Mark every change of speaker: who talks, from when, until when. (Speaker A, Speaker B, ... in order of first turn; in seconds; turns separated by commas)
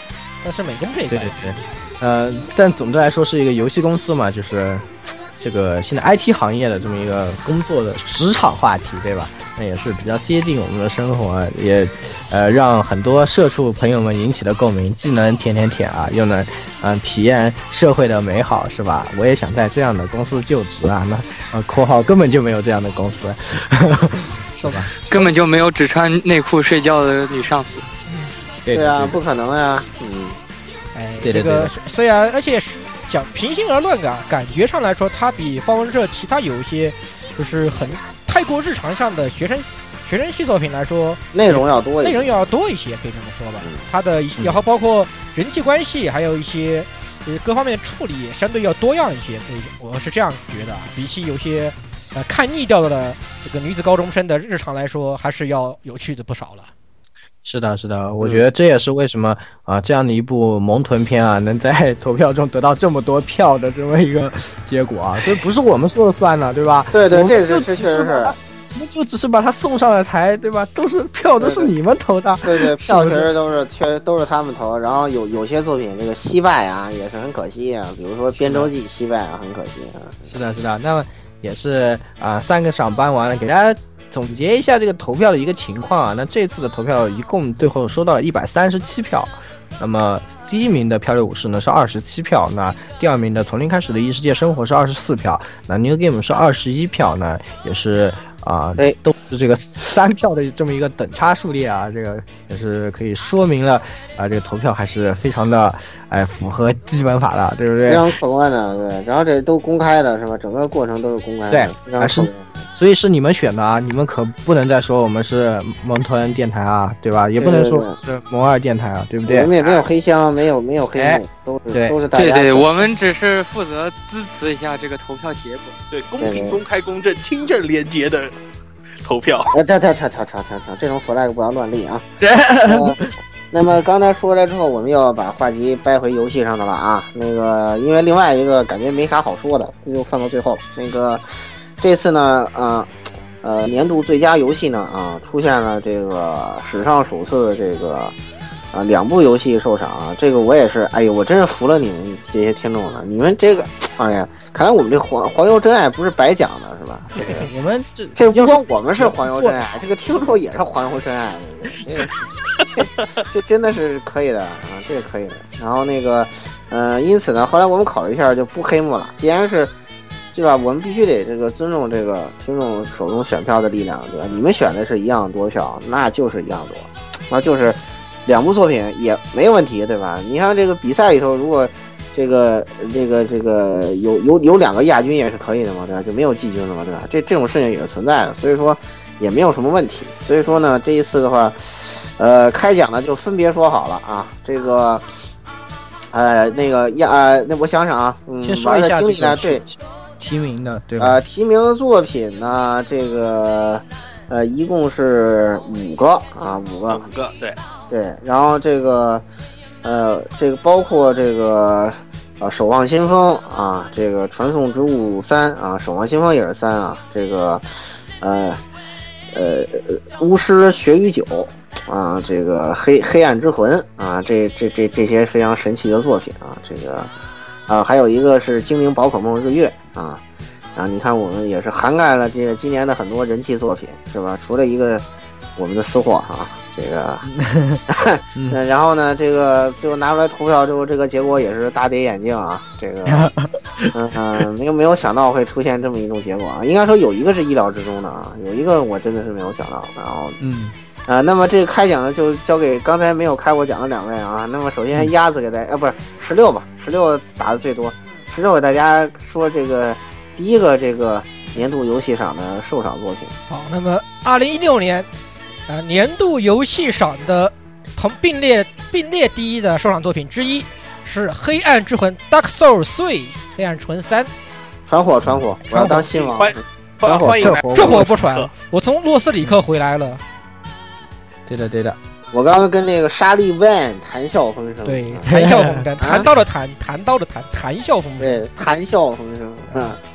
Speaker A: 0.4-1.4, Speaker B: 1.1-4.9, Speaker B: 5.4-24.9, Speaker A: 24.6-24.9, Speaker C: 25.0-27.9, Speaker A: 28.1-28.3, Speaker B: 28.6-29.2, Speaker D: 28.7-30.4, Speaker A: 30.9-56.7, Speaker B: 31.2-31.7, Speaker D: 41.3-42.5, Speaker D: 43.6-43.8, Speaker B: 57.4-73.3, Speaker D: 66.9-68.3, Speaker D: 71.4-71.7, Speaker D: 72.4-80.3, Speaker B: 78.3-78.7, Speaker B: 80.2-108.2, Speaker D: 107.8-112.6, Speaker B: 111.5-119.5, Speaker D: 117.4-118.0, Speaker D: 119.3-122.9, Speaker B: 120.9-122.0, Speaker C: 122.1-125.7, Speaker E: 125.9-128.3, Speaker D: 126.2-126.6, Speaker E: 129.0-129.5, Speaker D: 129.5-132.1, Speaker B: 132.2-133.0, Speaker D: 132.6-133.0, Speaker D: 133.5-141.2, Speaker D: 141.8-142.9, Speaker D: 143.4-148.1, Speaker D: 148.7-157.5, Speaker B: 157.1-159.6, Speaker D: 158.2-169.7, Speaker D: 170.3-195.0, Speaker D: 196.1-199.6, Speaker B: 198.4-201.2, Speaker D: 201.0-207.1, Speaker E: 206.9-207.6, Speaker D: 207.9-209.2, Speaker D: 209.8-218.6, Speaker D: 219.3-227.1, Speaker D: 227.7-230.2, Speaker D: 230.8-235.0, Speaker D: 235.6-237.3, Speaker B: 237.2-237.8, Speaker D: 237.9-243.3, Speaker B: 243.0-244.4, Speaker D: 243.9-250.4, Speaker B: 250.4-250.7, Speaker D: 251.1-263.3, Speaker A: 263.5-265.1, Speaker A: 265.7-274.3, Speaker D: 274.9-277.5, Speaker A: 275.7-276.0, Speaker E: 276.1-278.5, Speaker B: 277.3-278.1, Speaker A: 277.7-280.2, Speaker B: 281.5-282.0, Speaker D: 282.3-285.3, Speaker A: 284.8-288.4, Speaker B: 285.3-285.8, Speaker D: 286.0-286.3, Speaker D: 288.2-290.0